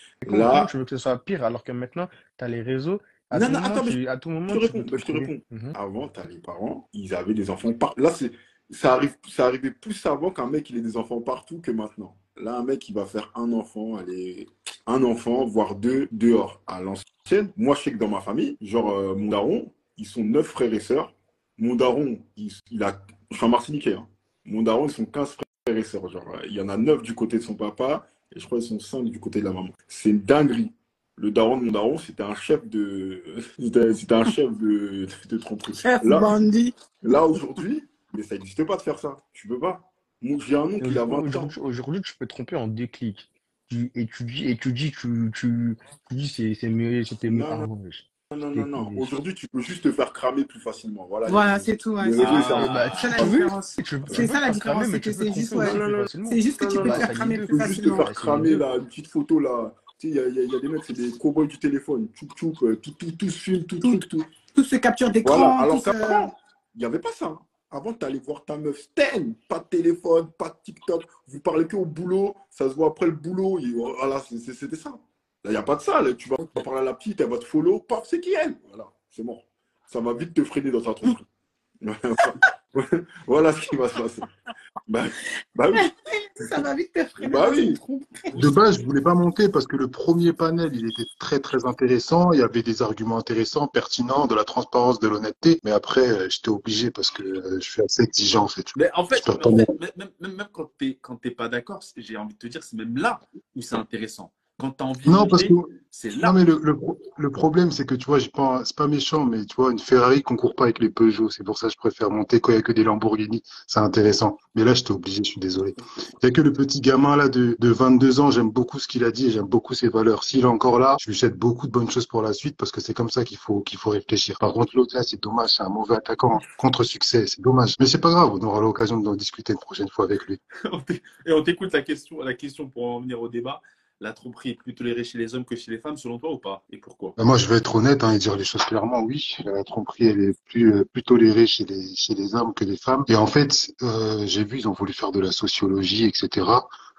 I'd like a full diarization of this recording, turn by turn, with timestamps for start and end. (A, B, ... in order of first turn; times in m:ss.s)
0:00.2-0:00.7 A
0:00.2-0:05.8 B
0:03.3-0:36.4 A
0:35.8-0:36.7 C
0:37.0-0:41.6 A
0:40.8-0:49.1 B
0:47.3-0:47.7 A
0:48.3-0:53.3 A
0:51.3-0:58.1 C
0:52.2-0:53.3 D
0:52.7-0:58.6 B
0:55.6-1:04.3 A
1:04.5-1:06.3 C
1:05.2-1:21.2 A
1:21.8-1:24.3 A
1:24.9-1:25.9 A
1:25.7-1:28.6 C
1:27.2-1:27.8 A
1:28.4-1:39.7 E
1:38.7-1:46.4 D
1:45.0-2:10.4 E
2:10.6-2:17.2 D
2:17.2-2:26.7 E